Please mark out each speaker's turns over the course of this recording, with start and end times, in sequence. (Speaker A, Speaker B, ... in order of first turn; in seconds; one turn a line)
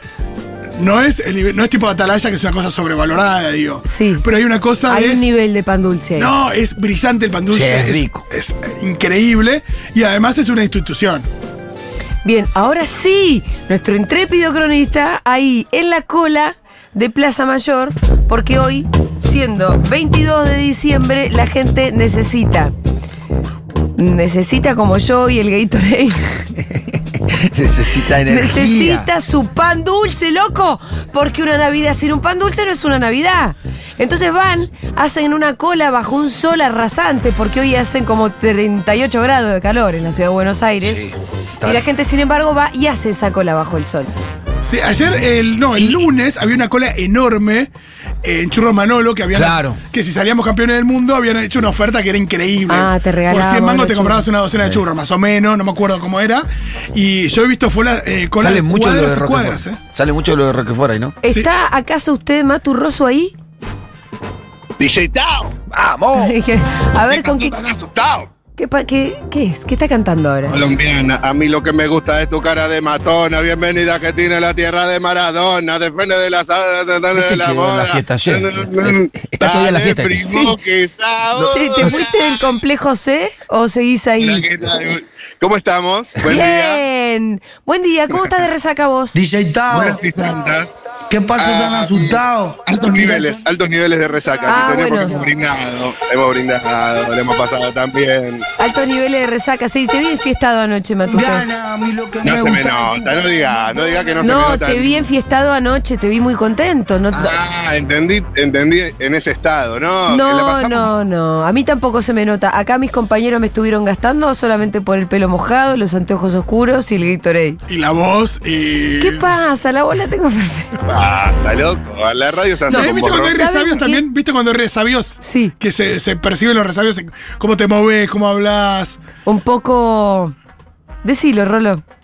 Speaker A: 0.8-5.2
Speaker B: 3.8-4.2
Speaker B: 4.9-6.3
Speaker A: 6.2-11.2
Speaker C: 7.5-8.2
Speaker B: 12.2-22.7
Speaker B: 24.0-26.3
Speaker C: 26.6-29.1
Speaker B: 28.3-41.0
Speaker C: 40.8-41.8
Speaker B: 41.6-44.1
Speaker A: 44.6-47.7
Speaker A: 48.2-59.8
Speaker C: 49.3-49.8
Speaker B: 52.7-54.2
Speaker C: 58.4-61.2
Speaker B: 61.2-63.3
Speaker D: 64.8-65.5
Speaker C: 65.7-66.3
Speaker B: 66.1-67.5
Speaker D: 67.1-68.3
Speaker B: 68.6-70.6
Speaker D: 70.5-82.4
Speaker C: 77.1-80.5
Speaker C: 81.4-82.1
Speaker B: 81.5-84.5
Speaker D: 84.2-86.8
Speaker B: 86.2-89.2
Speaker E: 89.1-90.0
Speaker D: 89.7-98.5
Speaker E: 91.1-93.4
Speaker B: 94.5-95.3
Speaker B: 98.6-101.5
Speaker E: 101.0-104.2
Speaker D: 102.2-105.0
Speaker B: 104.2-107.4
Speaker D: 107.1-110.9
Speaker B: 110.1-117.6
Speaker A: 117.7-119.3
Speaker B: 119.0-120.8
Speaker D: 120.8-123.3
Speaker B: 122.7-124.0
Speaker A: 122.7-129.0
Speaker B: 125.2-125.5
Speaker B: 129.2-130.3
Speaker B: 131.0-131.8